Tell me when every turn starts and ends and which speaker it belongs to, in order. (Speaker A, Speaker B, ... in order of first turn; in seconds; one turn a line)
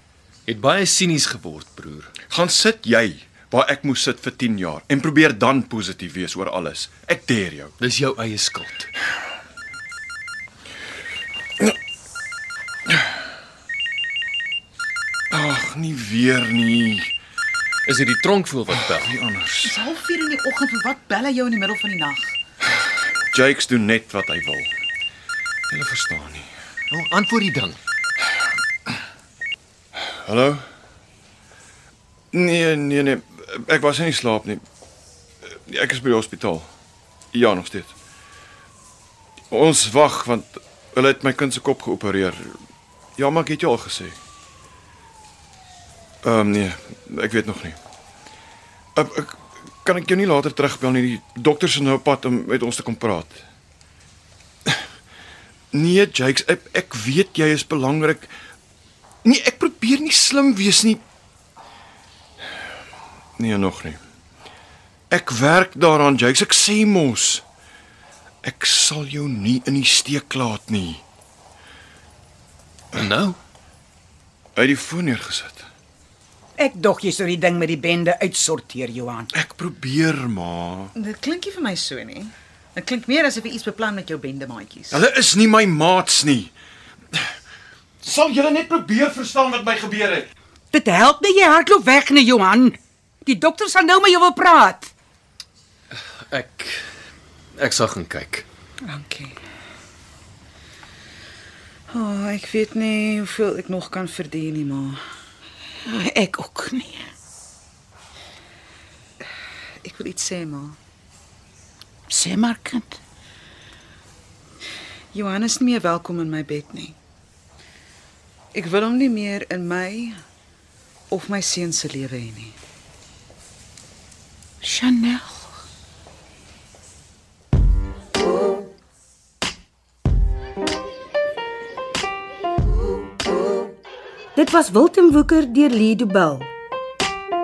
Speaker A: 0.5-2.1
Speaker B: 2.3-7.7
Speaker A: 7.8-8.9
Speaker B: 15.3-17.1
Speaker A: 17.9-19.2
Speaker B: 18.9-19.8
Speaker C: 19.6-22.4
Speaker B: 23.3-24.7
Speaker B: 25.7-26.5
Speaker A: 26.9-27.8
Speaker B: 29.9-30.6
Speaker B: 32.3-34.6
Speaker B: 35.5-36.7
Speaker B: 37.3-37.9
Speaker B: 39.5-42.6
Speaker B: 43.2-44.2
Speaker B: 46.2-47.8
Speaker B: 48.9-53.4
Speaker B: 55.7-58.3
Speaker B: 59.2-61.0
Speaker B: 63.4-64.0
Speaker B: 65.1-67.4
Speaker B: 68.4-71.0
Speaker A: 72.9-73.4
Speaker B: 74.5-75.7
Speaker D: 76.6-79.3
Speaker B: 79.3-80.9
Speaker C: 81.0-85.0
Speaker B: 84.9-86.5
Speaker B: 88.0-90.3
Speaker D: 90.7-94.9
Speaker A: 95.9-96.8
Speaker A: 97.5-98.5
Speaker C: 98.8-99.3
Speaker C: 101.9-105.0
Speaker D: 105.8-107.1
Speaker C: 109.8-110.8
Speaker D: 112.1-113.0
Speaker C: 115.1-117.0
Speaker C: 118.5-120.2
Speaker C: 121.1-122.5
Speaker D: 124.6-125.5
Speaker E: 134.3-136.5